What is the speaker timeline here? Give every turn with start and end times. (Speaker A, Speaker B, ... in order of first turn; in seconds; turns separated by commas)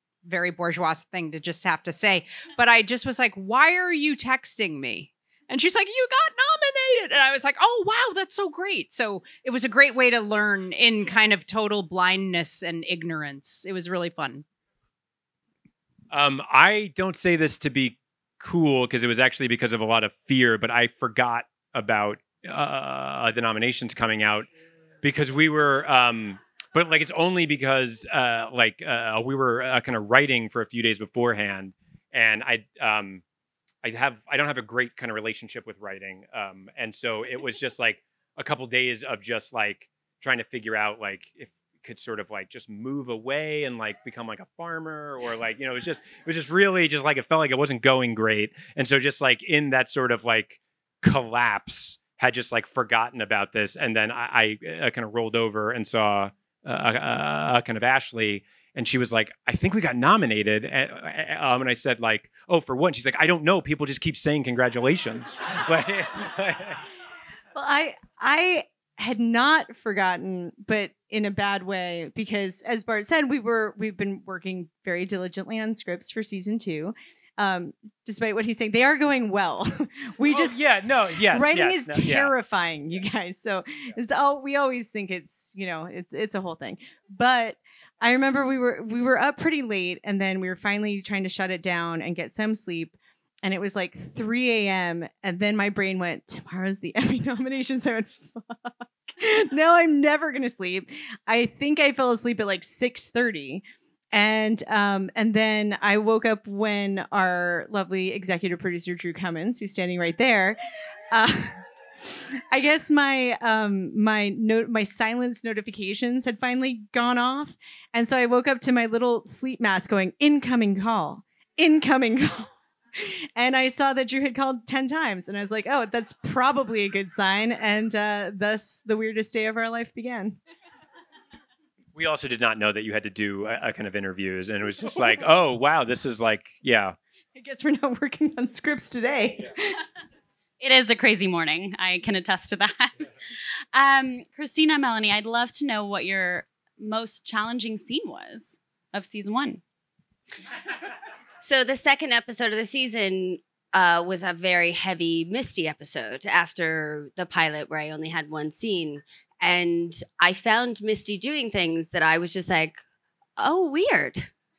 Speaker A: 0.2-14.4, Speaker B: 16.1-24.5, Speaker B: 25.0-33.2, Speaker B: 33.8-66.8, Speaker C: 67.5-80.6, Speaker B: 80.3-82.3, Speaker C: 81.2-110.6, Speaker C: 111.1-111.6, Speaker C: 112.2-130.4, Speaker B: 131.9-136.9, Speaker C: 137.3-139.8, Speaker D: 140.6-143.1, Speaker D: 143.7-149.6, Speaker E: 151.4-162.8, Speaker E: 163.4-164.3